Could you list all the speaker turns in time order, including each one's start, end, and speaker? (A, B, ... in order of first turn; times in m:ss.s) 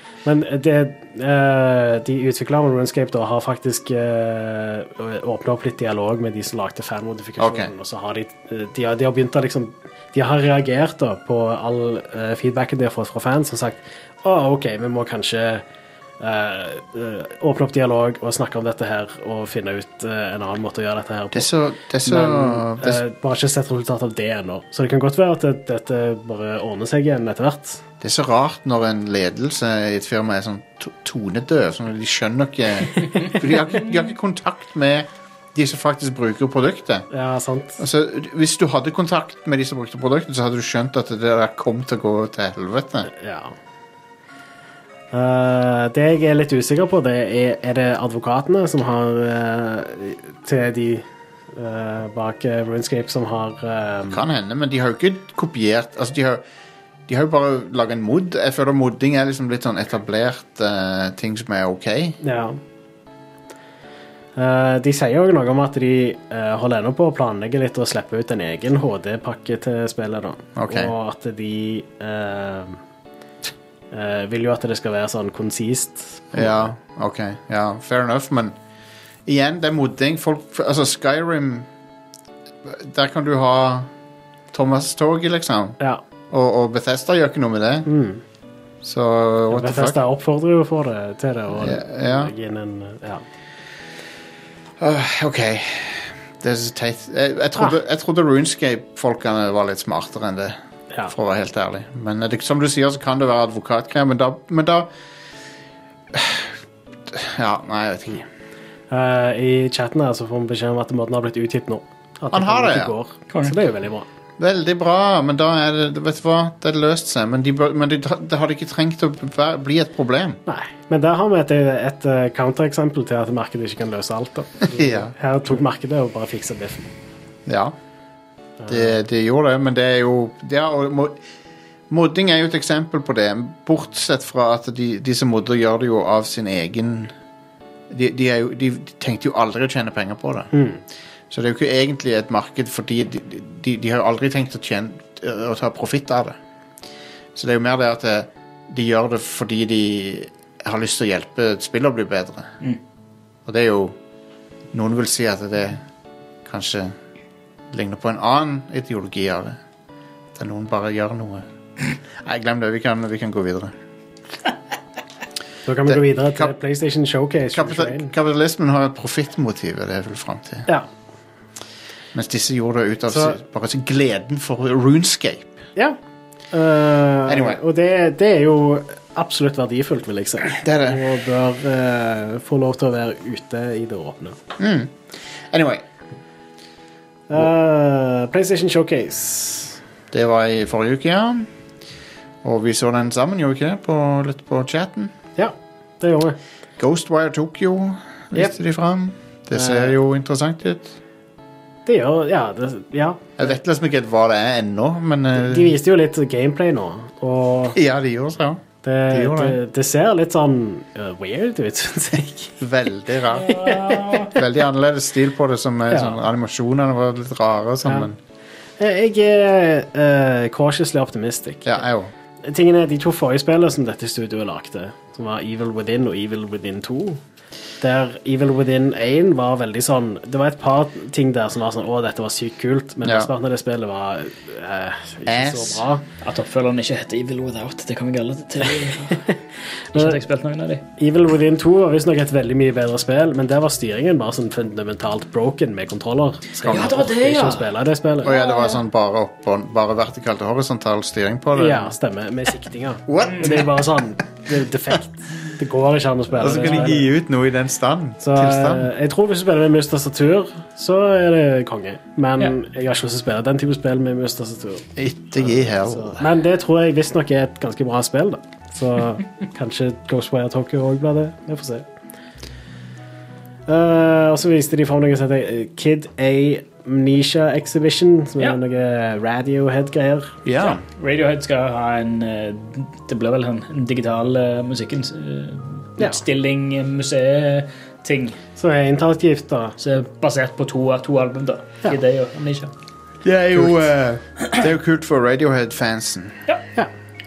0:00.2-0:15.6 A
0:07.4-0:07.7 B
0:16.2-0:21.5 A
0:21.3-0:23.0 B
0:22.0-0:27.8 A
0:28.0-0:37.1 B
0:37.1-0:37.8 A
0:37.8-0:43.1 B
0:43.1-0:43.5 A
0:45.1-0:54.2 A
0:54.1-0:56.4 B
0:57.1-1:02.2 B
1:02.2-1:02.6 A
1:04.4-1:12.8 A
1:10.6-1:10.9 B
1:13.9-1:16.7 A
1:16.3-1:18.6 B
1:19.3-1:21.7 B
1:22.6-1:23.9 B
1:24.5-1:25.8 B
1:26.3-1:27.9 B
1:27.9-1:28.2 A
1:28.8-1:30.0 B
1:29.5-1:33.2 A
1:31.6-1:32.3 B
1:34.8-1:40.6 B
1:41.1-1:44.9 B
1:46.1-1:46.6 B
1:47.1-1:48.2 B
1:48.9-1:54.0 A
1:52.3-1:52.9 B
1:54.4-2:00.4 B
2:00.4-2:06.9 A
2:04.7-2:05.1 B
2:07.4-2:07.7 B
2:08.6-2:09.0 A
2:08.7-2:11.2 B
2:11.9-2:17.1 B
2:17.9-2:20.5 B
2:20.5-2:20.8 A
2:21.3-2:26.4 B
2:27.3-2:32.5 B
2:33.4-2:34.0 B
2:34.7-2:35.8 B
2:36.4-2:37.0 B
2:37.7-2:39.6 B
2:40.3-2:41.5 B
2:42.2-2:43.7 B
2:45.6-2:48.1 A
2:45.9-2:46.5 B
2:47.5-2:50.7 B
2:52.1-2:55.5 B
2:53.1-2:53.4 A
2:56.5-3:04.4 A
2:57.3-2:57.6 B
3:00.5-3:01.0 B
3:04.6-3:05.8 B
3:07.3-3:09.8 A
3:10.1-3:11.5 B
3:12.4-3:15.1 B
3:15.4-3:16.4 A
3:16.8-3:21.0 B
3:19.6-3:19.9 A
3:21.9-3:23.5 A
3:23.4-3:25.7 B
3:25.3-3:27.8 A
3:27.7-3:29.6 B
3:28.8-3:32.6 A
3:32.6-3:33.6 B
3:33.3-3:34.3 C
3:33.5-3:34.1 A
3:34.3-3:38.2 B
3:37.8-3:38.1 A
3:38.8-3:41.8 A
3:41.6-3:42.1 B
3:42.4-3:47.2 A
3:47.8-3:56.0 A
3:53.0-3:53.3 B
3:55.3-3:55.8 B
3:56.2-3:59.3 C
3:59.9-4:00.8 C
4:01.0-4:08.3 A
4:06.6-4:07.0 B
4:06.6-4:07.6 C
4:08.2-4:11.9 B
4:08.3-4:08.7 C
4:11.6-4:17.0 A
4:13.1-4:13.8 B
4:13.3-4:13.6 C
4:16.4-4:18.9 B
4:16.5-4:16.9 C
4:18.2-4:24.9 A
4:25.0-4:26.2 B
4:25.4-4:31.9 A
4:33.7-4:40.4 A
4:40.4-4:40.8 B
4:40.6-4:48.4 C
4:48.6-4:49.8 A
4:49.8-4:52.7 C
4:53.2-4:56.4 B